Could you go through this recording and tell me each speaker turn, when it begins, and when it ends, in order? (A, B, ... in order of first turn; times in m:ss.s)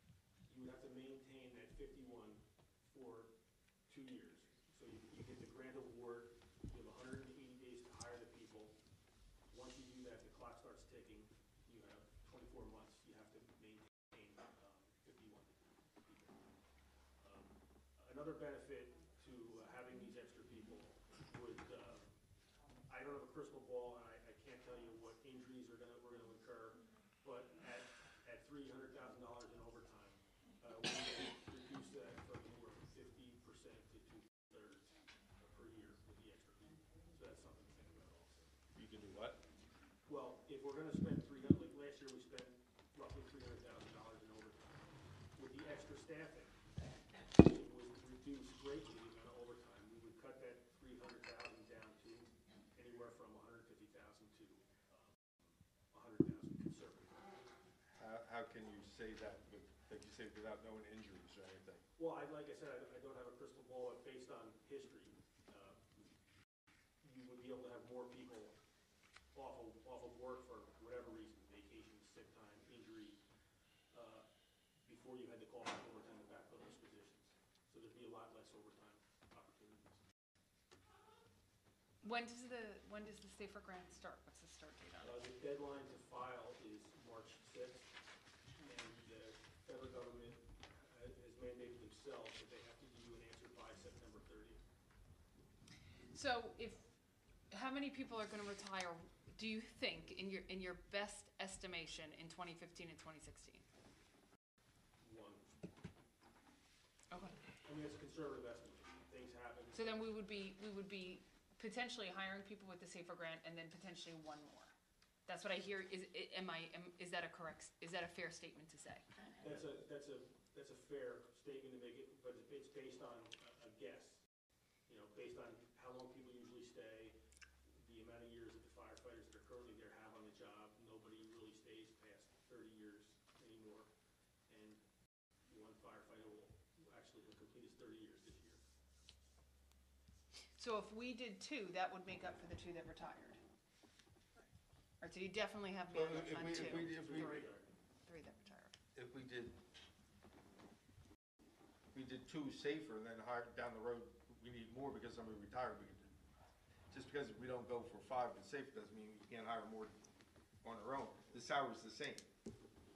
0:00.5-0:03.3 A
0:03.9-0:08.8 A
0:09.5-0:16.4 A
0:17.2-0:22.1 A
0:22.9-0:38.5 A
0:38.8-0:39.4 B
0:40.0-0:44.8 A
0:45.4-0:46.6 A
0:47.2-0:55.0 A
0:55.9-0:57.3 A
0:58.0-1:01.8 B
1:02.0-1:05.8 A
1:07.0-1:08.6 A
1:09.3-1:13.2 A
1:13.9-1:14.3 A
1:14.8-1:20.0 A
1:22.0-1:25.2 C
1:25.0-1:27.9 A
1:28.6-1:34.6 A
1:36.1-1:36.8 C
1:37.5-1:43.6 C
1:45.0-1:45.5 A
1:47.1-1:47.4 C
1:47.6-1:50.1 A
1:49.7-1:54.7 C
1:55.3-1:59.0 C
1:59.4-2:04.2 A
2:04.9-2:07.2 A
2:07.8-2:13.9 A
2:14.5-2:14.8 A
2:15.5-2:18.6 A
2:20.6-2:23.4 C
2:25.0-2:27.5 C
2:25.9-2:27.5 B
2:26.4-2:27.7 A
2:28.1-2:28.7 C
2:28.9-2:29.6 B
2:31.9-2:36.2 B
2:36.9-2:39.9 B
2:40.6-2:42.3 B